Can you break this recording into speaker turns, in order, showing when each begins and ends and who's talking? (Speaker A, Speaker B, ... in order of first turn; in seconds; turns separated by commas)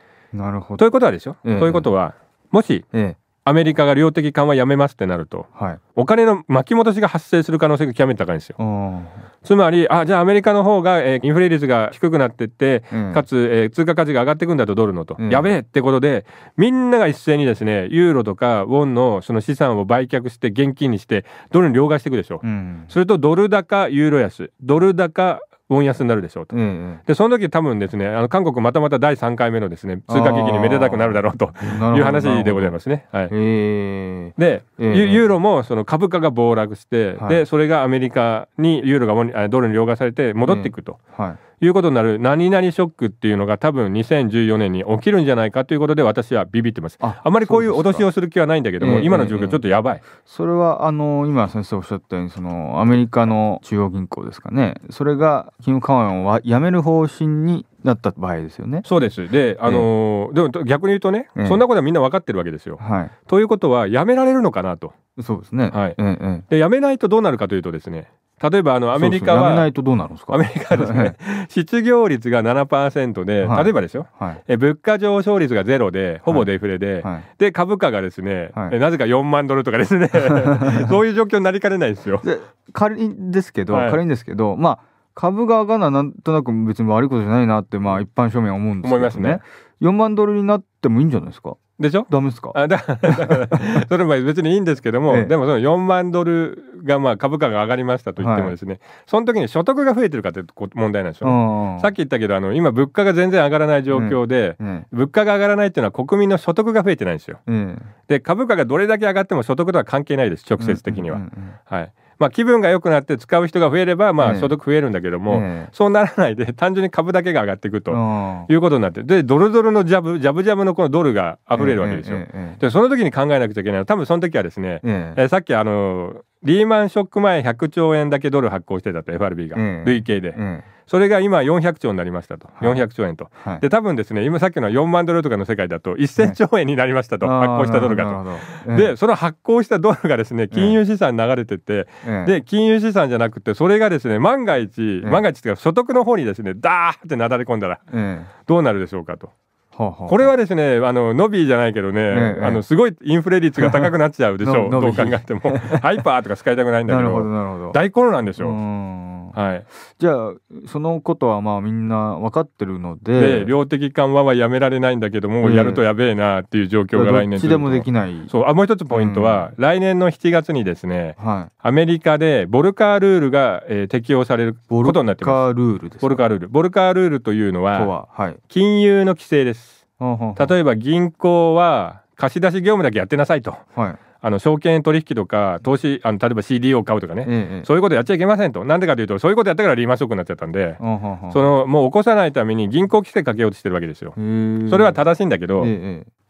Speaker A: 0.3-0.8, Speaker B: 0.8-2.9, Speaker A: 1.4-1.9, Speaker A: 2.9-3.2, Speaker B: 3.4-8.6, Speaker A: 5.5-5.8, Speaker A: 8.6-9.2, Speaker B: 9.4-33.3, Speaker A: 12.9-13.2, Speaker A: 15.2-15.5, Speaker A: 22.4-22.9, Speaker A: 26.5-27.0, Speaker A: 30.1-32.8, Speaker A: 33.3-35.3, Speaker B: 34.4-41.0, Speaker A: 37.2-37.4, Speaker A: 40.5-41.4, Speaker B: 41.6-50.0, Speaker A: 47.0-48.1, Speaker A: 48.8-49.6, Speaker A: 50.2-58.9, Speaker B: 58.8-64.9, Speaker A: 61.4-61.6, Speaker A: 62.8-63.1, Speaker A: 65.2-66.5, Speaker B: 65.7-66.0, Speaker B: 66.5-69.7, Speaker A: 68.9-71.1, Speaker B: 70.3-82.2, Speaker A: 73.4-74.4, Speaker A: 80.2-80.9, Speaker A: 82.2-93.8, Speaker B: 83.7-84.0, Speaker B: 88.8-89.4, Speaker B: 91.8-107.4, Speaker A: 95.1-95.3, Speaker A: 98.2-98.5, Speaker A: 101.2-101.9, Speaker A: 103.9-104.9, Speaker A: 107.5-107.9, Speaker B: 108.1-147.8, Speaker A: 110.6-111.6, Speaker A: 114.2-114.5, Speaker A: 115.3-115.7, Speaker A: 117.9-118.5, Speaker A: 121.5-122.6, Speaker A: 124.8-125.2, Speaker A: 129.5-130.7, Speaker A: 132.6-132.8, Speaker A: 137.2-138.9, Speaker A: 140.5-140.8, Speaker A: 142.0-142.3, Speaker A: 147.9-148.3, Speaker B: 148.5-149.3, Speaker A: 149.7-150.3, Speaker B: 150.1-158.6, Speaker A: 152.1-152.6, Speaker A: 153.6-155.8, Speaker A: 156.8-157.8, Speaker A: 158.4-159.4, Speaker B: 159.3-159.7, Speaker A: 159.9-163.5, Speaker B: 163.1-175.4, Speaker A: 165.4-165.8, Speaker A: 166.9-168.3, Speaker A: 168.9-169.5, Speaker A: 171.2-171.5, Speaker A: 174.7-176.2, Speaker B: 176.0-177.9, Speaker A: 177.7-178.4, Speaker B: 178.5-179.8, Speaker A: 180.0-180.5, Speaker B: 180.3-183.6, Speaker A: 183.7-184.0, Speaker B: 184.2-195.7, Speaker A: 187.2-187.7, Speaker A: 190.8-191.4, Speaker A: 194.2-195.0, Speaker A: 195.6-196.1